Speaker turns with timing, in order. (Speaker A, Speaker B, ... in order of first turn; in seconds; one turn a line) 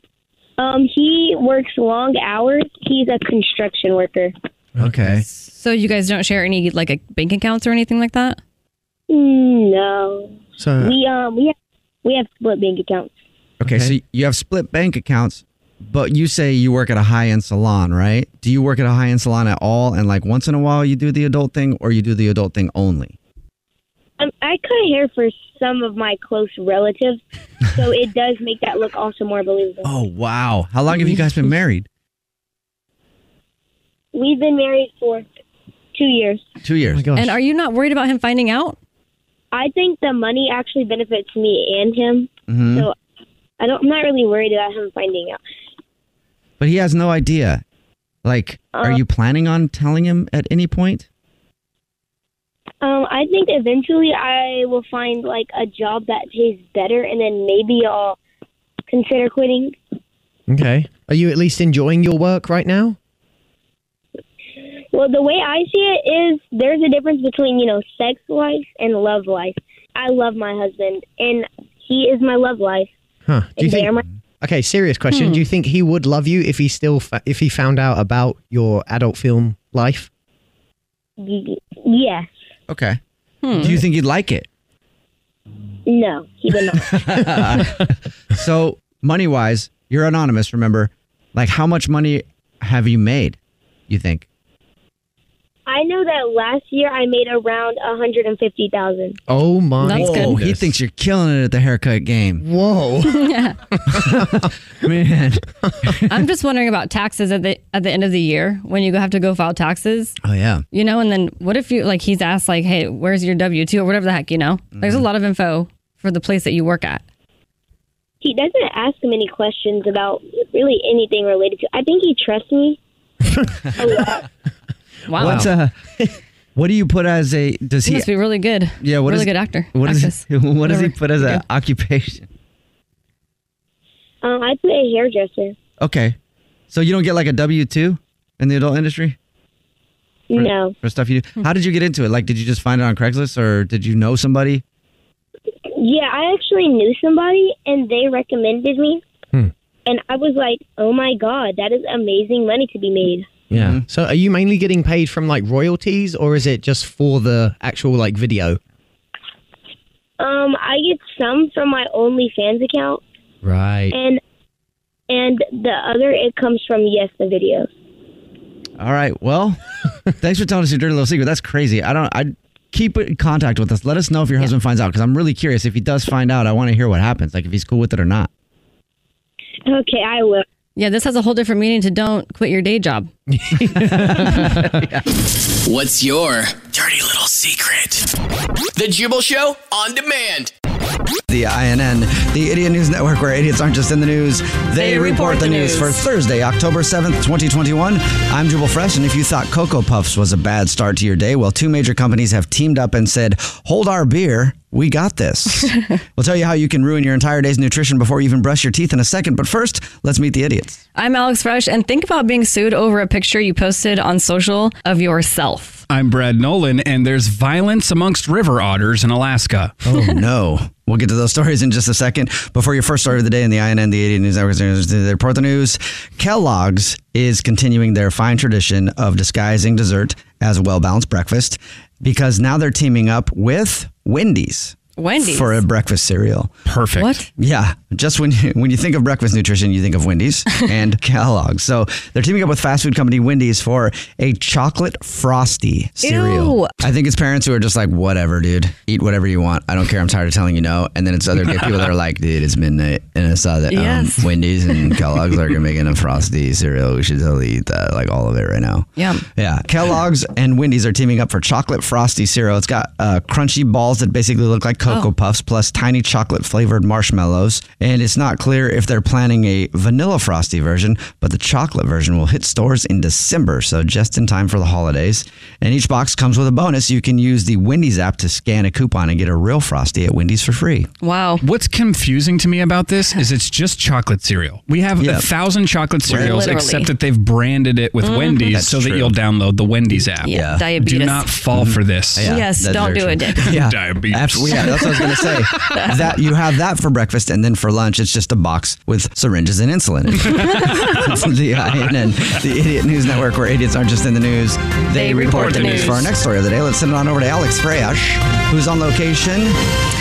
Speaker A: 0.6-4.3
Speaker B: 4.8-5.2
Speaker C: 4.8-5.2
Speaker D: 5.2-8.4
Speaker A: 9.1-11.5
Speaker B: 10.6-11.0
Speaker A: 12.1-13.1
Speaker C: 13.6-23.2
Speaker B: 13.6-13.9
Speaker A: 24.2-29.9
Speaker C: 29.8-31.9
Speaker A: 34.1-35.3
Speaker A: 36.0-36.5
Speaker C: 36.6-37.3
Speaker B: 36.9-37.3
Speaker D: 37.1-38.8
Speaker A: 39.5-43.0
Speaker C: 42.5-42.9
Speaker A: 43.6-45.4
Speaker C: 46.6-47.6
Speaker C: 48.2-51.1
Speaker A: 48.7-49.0
Speaker A: 52.8-58.2
Speaker A: 58.9-59.8
Speaker B: 60.5-63.0
Speaker A: 64.9-72.9
Speaker B: 73.3-80.1
Speaker A: 73.6-74.1
Speaker D: 75.1-75.5
Speaker A: 81.2-82.3
Speaker C: 82.7-83.0
Speaker D: 83.4-83.7
Speaker C: 83.6-84.5
Speaker A: 85.9-87.2
Speaker C: 87.0-93.4
Speaker C: 93.9-94.3
Speaker A: 95.7-99.2
Speaker B: 99.3-100.7
Speaker D: 99.8-100.4
Speaker C: 99.9-102.5
Speaker B: 102.4-103.3
Speaker D: 103.1-103.6
Speaker B: 103.9-104.5
Speaker C: 103.9-106.1
Speaker D: 106.1-110.2
Speaker C: 110.2-110.6
Speaker D: 110.7-117.0
Speaker C: 114.7-115.1
Speaker A: 118.2-122.8
Speaker A: 123.8-124.2
Speaker D: 125.1-125.5
Speaker B: 125.2-125.5
Speaker C: 125.2-128.1
Speaker D: 127.8-131.4
Speaker C: 128.8-132.3
Speaker A: 134.2-135.6
Speaker C: 135.8-136.2
Speaker C: 136.7-139.2
Speaker A: 140.3-140.8
Speaker C: 140.3-144.6
Speaker A: 145.8-149.0
Speaker A: 149.9-153.3
Speaker B: 153.5-158.6
Speaker C: 153.5-153.9
Speaker A: 160.2-163.0
Speaker B: 163.4-163.9
Speaker A: 163.9-164.2
Speaker A: 165.1-167.7
Speaker C: 168.8-169.6
Speaker C: 170.2-178.3
Speaker A: 179.7-180.4
Speaker D: 180.8-183.1
Speaker B: 183.4-184.8
Speaker C: 183.8-185.0
Speaker E: 185.7-188.1
Speaker E: 188.8-190.5
Speaker C: 191.3-210.8
Speaker D: 194.8-196.0
Speaker D: 211.0-215.8
Speaker F: 215.9-219.8
Speaker C: 219.9-236.5
Speaker D: 235.0-235.6
Speaker F: 236.7-237.2
Speaker D: 237.0-237.3
Speaker C: 237.4-280.9
Speaker D: 246.0-246.8
Speaker D: 253.7-254.3
Speaker D: 259.0-259.2
Speaker D: 281.0-281.4
Speaker F: 281.4-292.4
Speaker C: 285.0-285.3
Speaker C: 286.1-286.5
Speaker D: 286.1-286.9
Speaker D: 288.0-288.6
Speaker C: 288.5-289.2
Speaker D: 290.2-291.3
Speaker C: 290.3-290.7
Speaker C: 291.5-309.6
Speaker D: 292.2-293.5
Speaker F: 293.4-294.8
Speaker D: 294.6-296.1
Speaker D: 300.3-301.0
Speaker D: 304.9-306.1
Speaker F: 305.5-306.0